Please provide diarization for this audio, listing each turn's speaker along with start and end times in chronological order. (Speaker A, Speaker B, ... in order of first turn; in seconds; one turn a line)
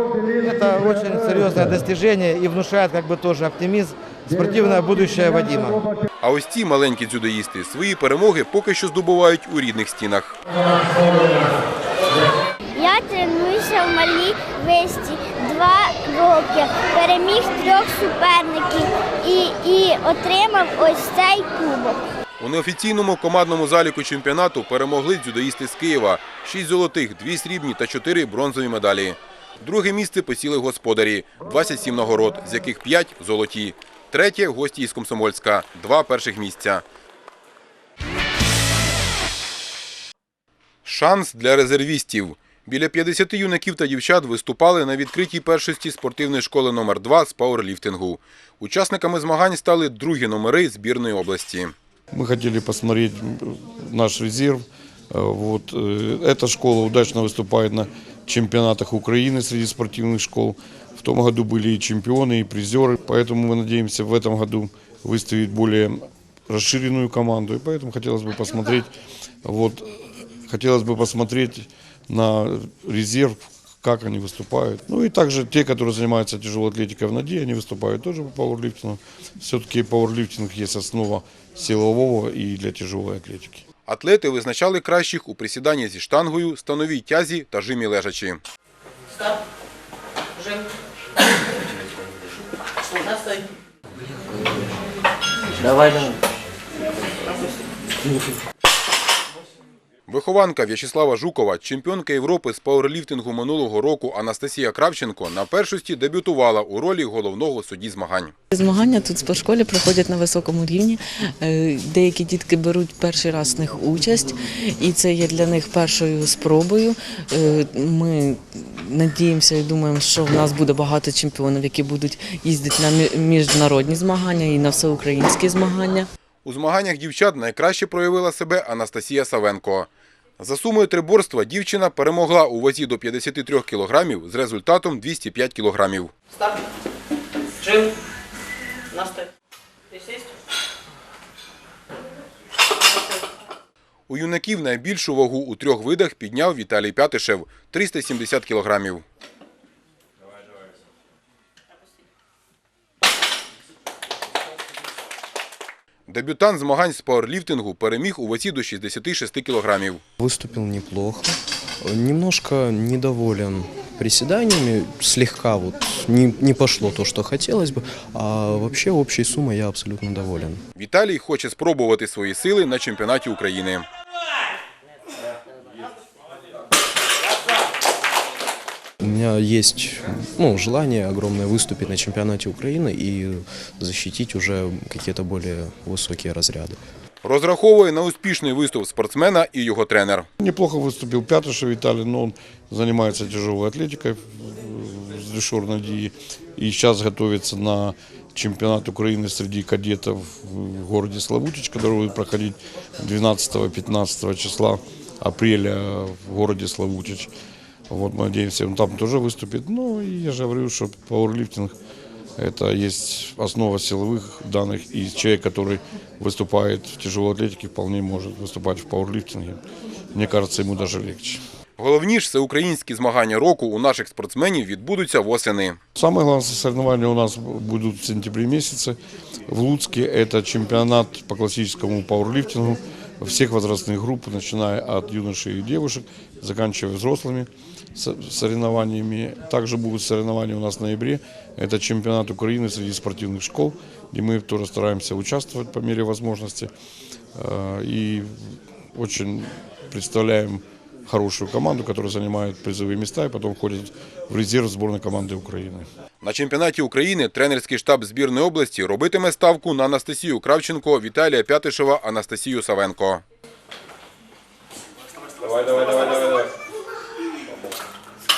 Speaker A: 0.3-5.8
Speaker B: 6.2-10.4
Speaker C: 12.7-22.0
Speaker B: 22.4-36.8
Speaker B: 40.8-51.7
Speaker D: 52.1-68.9
Speaker D: 69.4-83.6
Speaker B: 83.9-88.4
Speaker B: 100.1-108.3
Speaker E: 108.5-126.1
Speaker B: 126.4-136.1
Speaker B: 144.1-149.0
Speaker B: 156.1-160.0
Speaker F: 160.2-161.3
Speaker F: 161.8-170.6
Speaker B: 170.8-173.8
Speaker F: 179.0-186.8
Speaker B: 187.2-190.3
Speaker D: 190.4-207.3
Speaker D: 207.9-211.7
Speaker D: 212.4-219.6
Speaker D: 220.1-221.4
Speaker B: 221.8-225.8
Speaker D: 226.0-228.9
Speaker D: 229.5-246.7
Speaker D: 247.3-248.3
Speaker D: 248.9-255.9
Speaker B: 256.2-263.2
Speaker D: 265.4-266.5